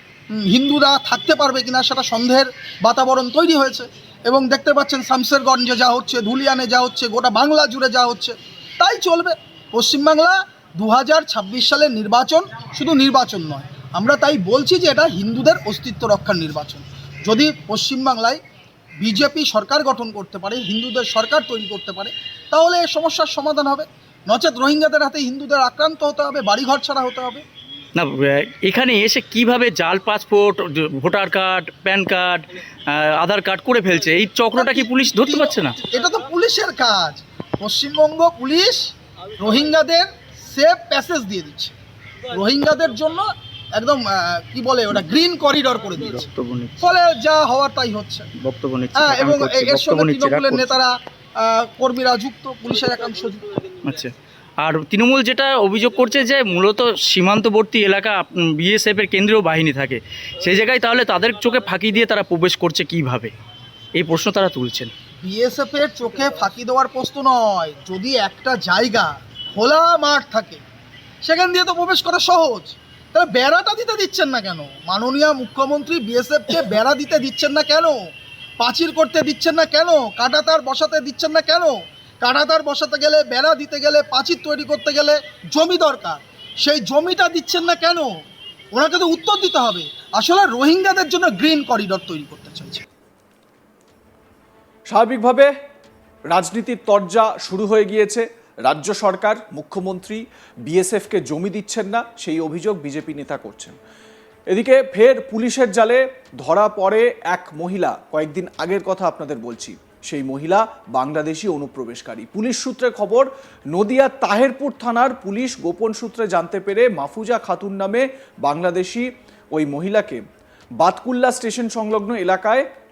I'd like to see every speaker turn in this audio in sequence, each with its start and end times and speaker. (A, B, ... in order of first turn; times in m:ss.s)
0:00.3-0:18.4 A
0:19.0-0:27.4 A
0:28.0-0:35.7 B
0:34.5-0:41.7 A
0:42.3-0:46.2 A
0:46.0-0:46.8 B
0:46.8-0:48.3 A
0:48.4-0:50.7 B
0:48.9-0:53.5 A
0:53.8-1:03.3 B
1:04.0-1:04.9 B
1:05.2-1:10.6 A
1:11.2-1:18.0 A
1:18.6-1:28.1 A
1:28.7-1:32.8 A
1:34.9-1:35.5 C
1:36.3-1:43.8 C
1:44.5-2:00.2 C
2:00.8-2:02.6 C